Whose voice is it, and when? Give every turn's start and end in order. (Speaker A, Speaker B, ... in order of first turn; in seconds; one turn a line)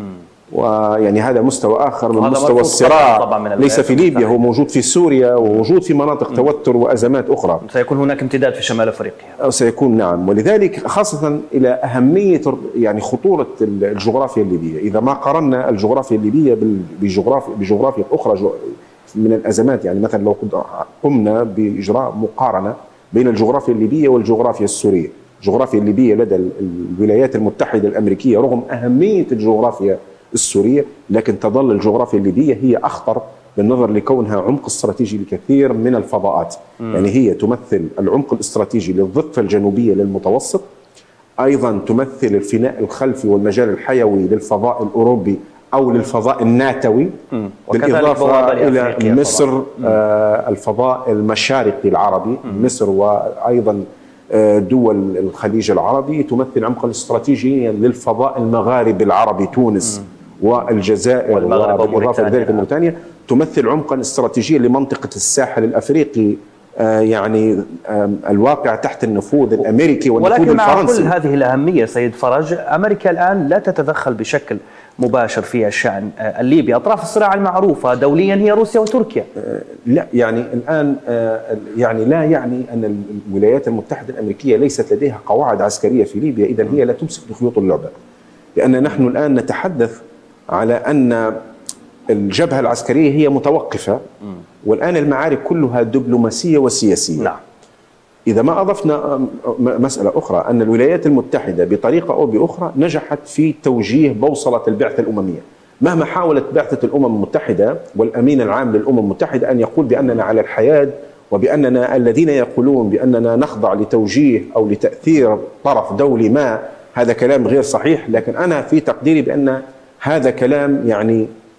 Speaker A: 0.5-7.6
Speaker B: 2.1-4.4
Speaker B: 7.6-9.4
Speaker A: 9.4-40.6
Speaker A: 41.4-47.1
Speaker B: 47.3-49.5
Speaker A: 47.7-71.1
Speaker B: 61.3-62.6
Speaker B: 70.2-79.3
Speaker A: 79.4-87.9
Speaker A: 88.6-90.0
Speaker A: 90.5-91.4
Speaker A: 92.1-94.0
Speaker A: 94.6-97.3
Speaker A: 98.3-121.3